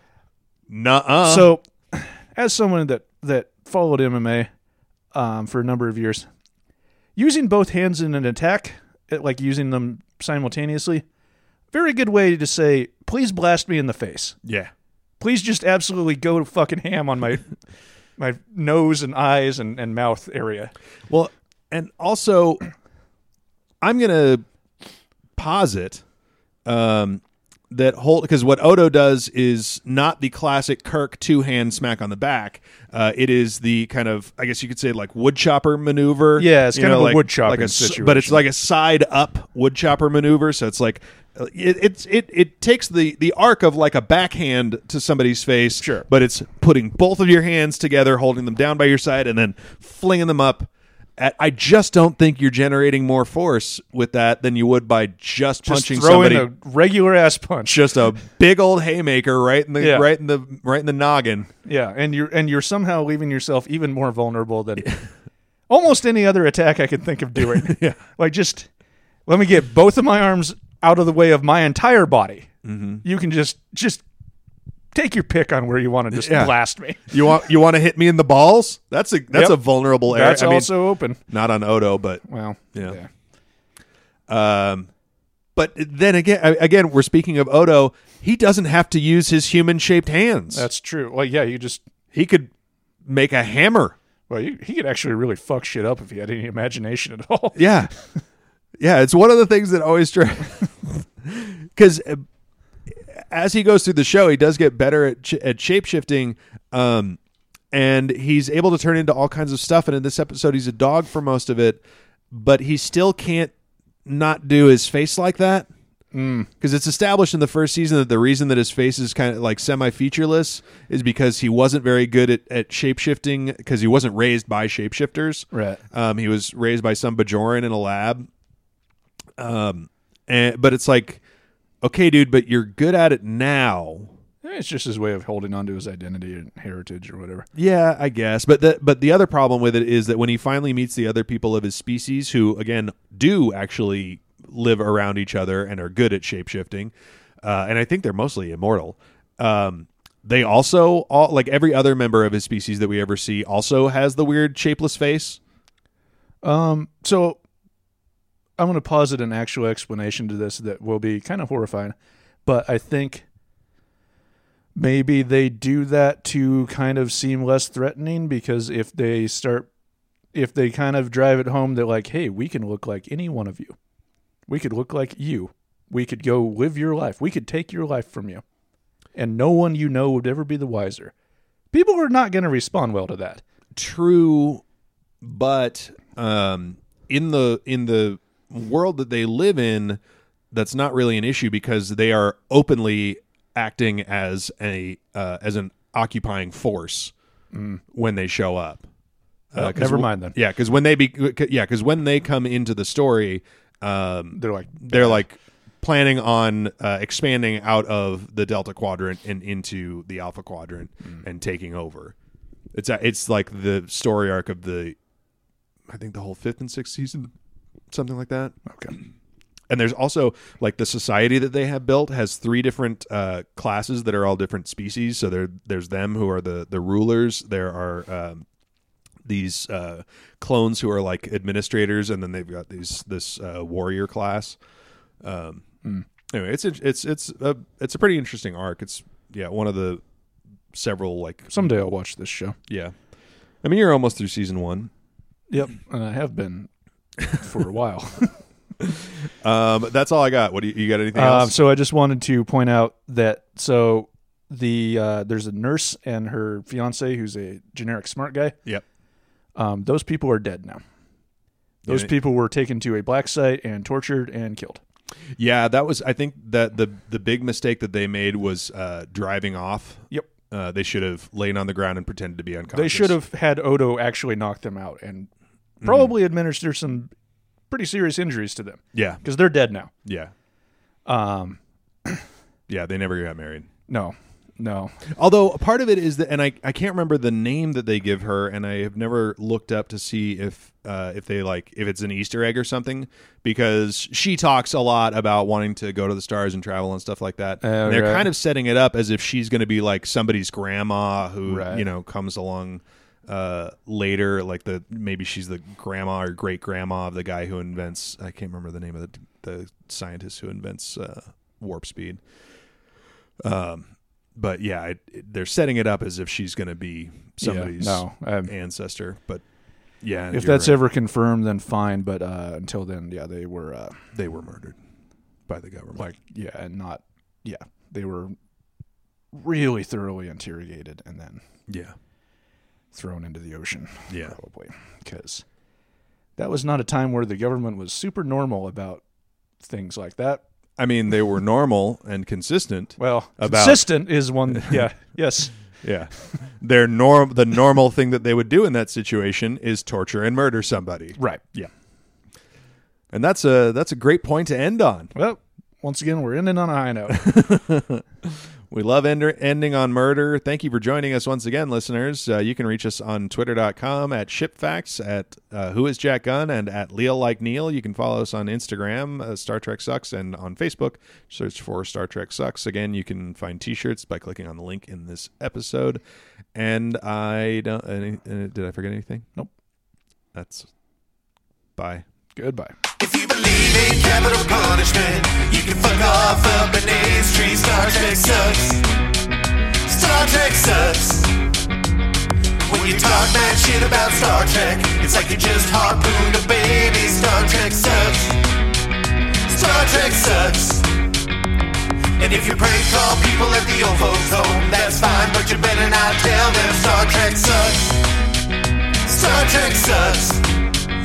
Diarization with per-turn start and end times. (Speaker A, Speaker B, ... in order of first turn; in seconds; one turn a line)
Speaker A: 0.7-1.5
Speaker B: 1.2-4.5
Speaker B: 5.1-6.3
Speaker B: 7.2-11.0
Speaker B: 11.7-14.3
Speaker A: 14.4-14.7
Speaker B: 15.2-17.5
Speaker B: 18.2-20.7
Speaker A: 21.1-22.6
Speaker A: 23.8-24.4
Speaker A: 25.4-26.0
Speaker A: 26.6-56.5
Speaker B: 36.4-38.4
Speaker B: 45.8-46.0
Speaker B: 55.6-57.9
Speaker A: 57.6-61.5
Speaker B: 59.8-60.1
Speaker B: 61.6-64.9
Speaker B: 65.7-68.7
Speaker A: 67.6-68.0
Speaker B: 69.2-72.5
Speaker A: 72.6-73.0
Speaker B: 73.0-74.0
Speaker B: 74.9-77.1
Speaker A: 76.1-80.7
Speaker B: 79.3-81.2
Speaker A: 81.3-82.2
Speaker B: 82.2-83.1
Speaker A: 84.3-84.9
Speaker A: 85.5-90.7
Speaker B: 90.5-91.8
Speaker A: 92.1-92.5
Speaker A: 93.0-93.9
Speaker B: 94.3-97.6
Speaker A: 97.5-97.9
Speaker A: 98.8-102.2
Speaker A: 102.9-107.2
Speaker A: 107.7-113.5
Speaker A: 114.0-115.7
Speaker B: 116.1-116.5
Speaker A: 116.6-128.3
Speaker B: 125.5-125.8
Speaker A: 129.4-131.2
Speaker A: 131.8-134.1
Speaker B: 134.4-137.5
Speaker A: 137.5-155.4
Speaker B: 156.4-157.4
Speaker B: 158.6-163.2
Speaker B: 164.7-169.7
Speaker B: 170.3-173.8
Speaker B: 174.5-178.4
Speaker B: 179.2-181.1
Speaker B: 181.7-183.4
Speaker A: 183.7-184.6
Speaker A: 185.2-190.0
Speaker A: 190.5-197.1
Speaker B: 197.5-197.8
Speaker A: 197.9-198.8
Speaker A: 199.5-212.1
Speaker B: 199.5-200.3
Speaker B: 204.3-205.2
Speaker A: 212.7-214.9
Speaker A: 215.9-217.3
Speaker A: 217.9-218.5
Speaker B: 218.7-218.9
Speaker A: 219.7-228.4
Speaker A: 229.2-234.6
Speaker A: 235.2-235.6
Speaker A: 236.3-240.0
Speaker A: 240.7-241.6
Speaker B: 241.5-242.6
Speaker A: 242.7-242.9
Speaker A: 243.6-244.9
Speaker B: 245.5-246.7
Speaker B: 247.3-248.4
Speaker A: 249.4-251.5
Speaker B: 251.1-258.6
Speaker B: 259.6-260.8
Speaker B: 261.9-264.8
Speaker A: 265.4-273.1
Speaker B: 272.7-275.3
Speaker B: 275.8-277.1
Speaker B: 277.7-279.9
Speaker A: 278.9-279.2
Speaker A: 280.0-280.3
Speaker B: 281.1-282.2
Speaker A: 282.7-283.7
Speaker B: 283.9-285.0
Speaker A: 285.1-312.2
Speaker B: 297.6-298.3
Speaker B: 301.4-301.8
Speaker A: 313.4-319.4
Speaker B: 317.4-318.5
Speaker A: 320.0-320.8
Speaker B: 320.3-324.0
Speaker A: 324.1-324.8
Speaker A: 325.5-326.0
Speaker B: 325.9-328.3
Speaker B: 329.3-331.4
Speaker A: 331.7-331.9
Speaker B: 332.9-335.4
Speaker A: 334.1-334.3
Speaker B: 336.4-339.0
Speaker B: 339.6-340.4
Speaker A: 340.8-343.9
Speaker B: 343.0-345.5
Speaker A: 345.8-351.7
Speaker B: 351.2-351.4
Speaker A: 353.1-355.1
Speaker B: 355.1-357.2
Speaker A: 357.1-358.0
Speaker A: 358.7-376.0
Speaker A: 376.5-379.3
Speaker A: 380.3-380.7
Speaker A: 381.8-382.0
Speaker B: 382.4-382.7
Speaker C: 383.0-388.9
Speaker C: 389.9-391.4
Speaker C: 392.6-398.4
Speaker C: 399.5-400.9
Speaker C: 402.2-408.1
Speaker C: 409.0-410.7